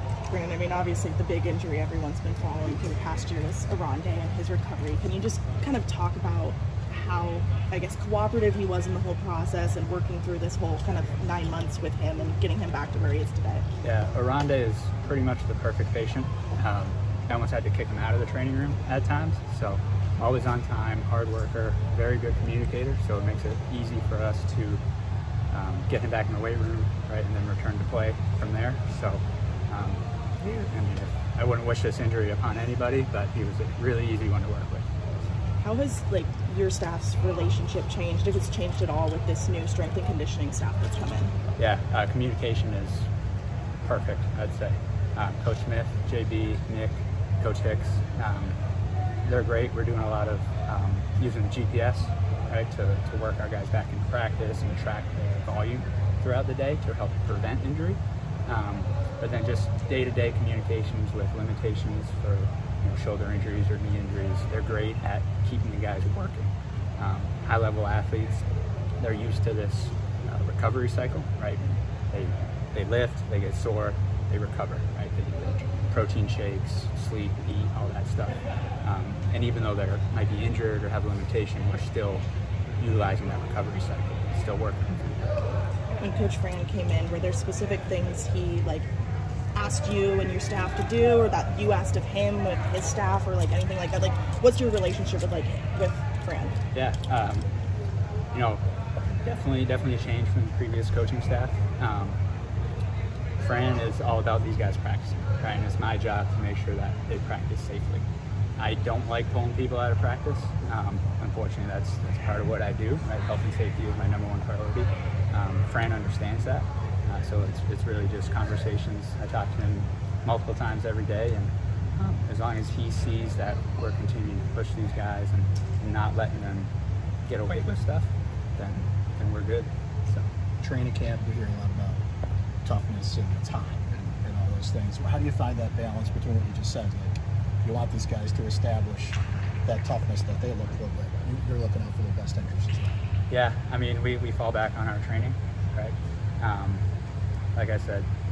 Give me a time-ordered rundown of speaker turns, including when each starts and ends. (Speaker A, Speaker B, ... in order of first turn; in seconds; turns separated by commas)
Speaker A: 0.3-13.7, Speaker B: 13.8-24.8, Speaker B: 25.5-34.9, Speaker A: 35.6-41.3, Speaker B: 41.6-43.1, Speaker B: 43.8-48.6, Speaker B: 49.2-68.5, Speaker B: 69.0-82.2, Speaker B: 82.8-85.4, Speaker A: 86.0-88.9, Speaker A: 89.5-96.6, Speaker B: 96.7-97.5, Speaker B: 98.3-102.2, Speaker B: 103.4-108.1, Speaker B: 108.6-126.7, Speaker B: 127.3-130.3, Speaker C: 130.6-132.0, Speaker C: 132.6-142.9, Speaker B: 143.3-146.8, Speaker B: 147.6-148.1